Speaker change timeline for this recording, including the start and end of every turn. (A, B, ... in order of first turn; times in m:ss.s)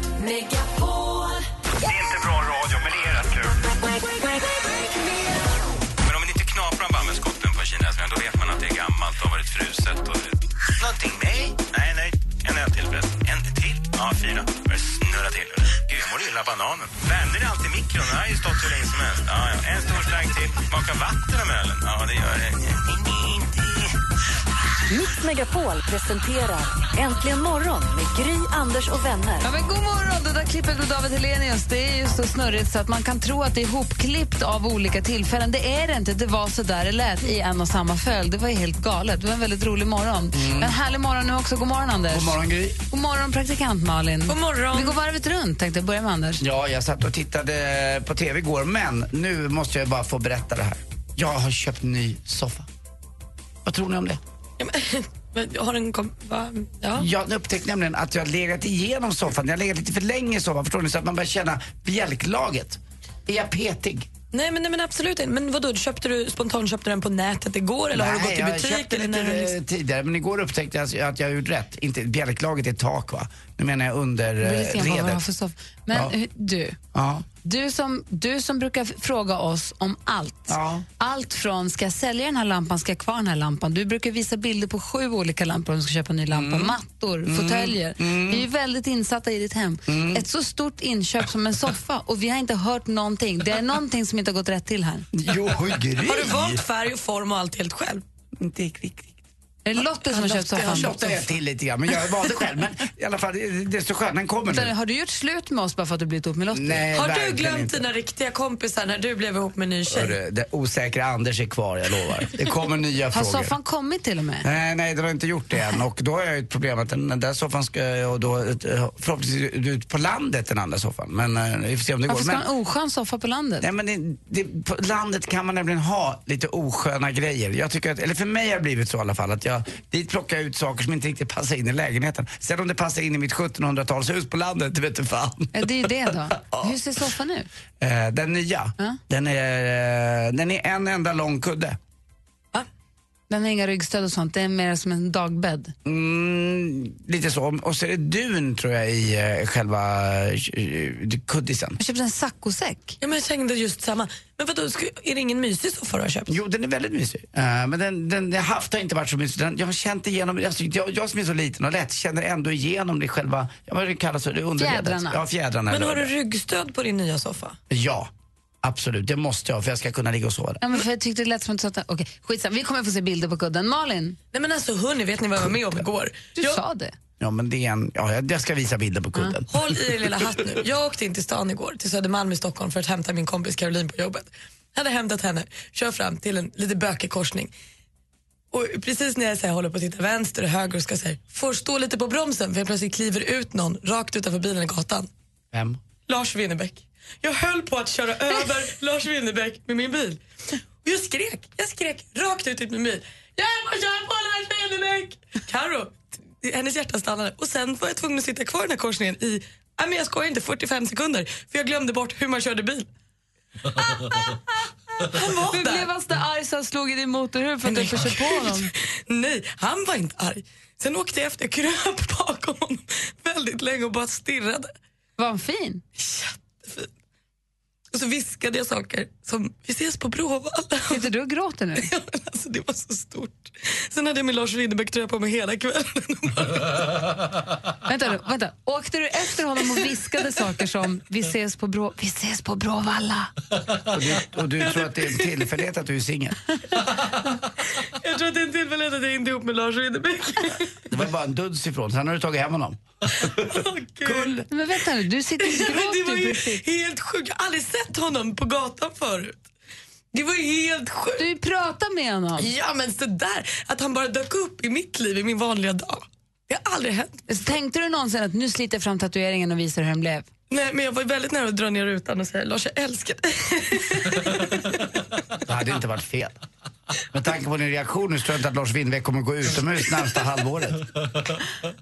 0:00.3-0:01.3 A
0:01.9-0:03.5 B
0:06.0-0:23.9 B
0:24.9-0:29.5 A
0:29.4-0:42.4 C
0:40.3-0:40.8 D
0:42.1-0:42.8 D
0:42.9-0:46.4 C
0:44.3-0:45.0 E
0:46.4-0:52.7 D
0:53.6-0:54.2 D
0:54.6-0:57.1 E
0:57.0-1:04.1 D
1:04.3-1:09.6 E
1:07.9-1:15.2 D
1:14.4-1:16.8 C
1:16.9-1:17.3 D
1:17.4-1:35.1 C
1:20.5-1:20.9 D
1:26.3-1:28.5 D
1:29.9-1:30.2 D
1:35.1-1:36.6 D
1:36.0-1:38.0 E
1:38.4-1:39.2 D
1:39.6-1:41.0 C
1:40.0-1:41.3 E
1:40.6-1:44.7 D
1:44.5-1:46.8 C
1:46.5-1:47.9 D
1:46.9-1:50.2 E
1:49.9-1:53.5 D
1:53.1-1:54.5 C
1:54.4-2:02.5 D
2:02.1-2:03.7 C
2:03.6-2:16.8 D
2:15.5-2:17.5 C
2:17.8-2:21.8 D
2:23.3-2:25.7 C
2:25.8-2:31.8 D
2:31.8-2:33.0 C
2:33.0-2:36.4 E
2:36.3-2:46.1 D
2:44.6-2:45.2 C
2:45.7-2:47.6 E
2:47.7-2:48.1 D
2:48.6-2:50.6 D
2:50.6-2:54.2 C
2:54.3-2:56.6 E
2:56.4-2:56.9 C
2:57.2-3:00.2 D
2:59.5-3:07.5 E
3:08.5-3:15.1 E
3:15.5-3:15.8 D
3:16.1-3:20.2 E
3:20.8-3:32.9 E
3:35.0-3:35.9 E
3:35.1-3:38.7 C
3:37.6-3:44.7 E
3:45.2-3:45.8 C
3:46.0-3:46.9 E
3:47.9-3:51.1 E
3:50.9-3:51.9 C
3:51.8-3:57.0 E
3:57.9-4:03.3 C
4:03.9-4:06.4 D
4:04.6-4:05.4 E
4:07.8-4:10.8 E
4:10.9-4:13.4 D
4:13.2-4:14.4 E
4:14.0-4:14.4 D
4:14.5-4:16.6 C
4:15.4-4:19.4 E
4:20.1-4:21.2 E
4:21.2-4:22.5 C
4:22.4-4:27.3 E
4:27.3-4:30.3 C
4:30.5-4:34.9 E
4:35.5-4:36.4 D
4:37.1-4:40.9 D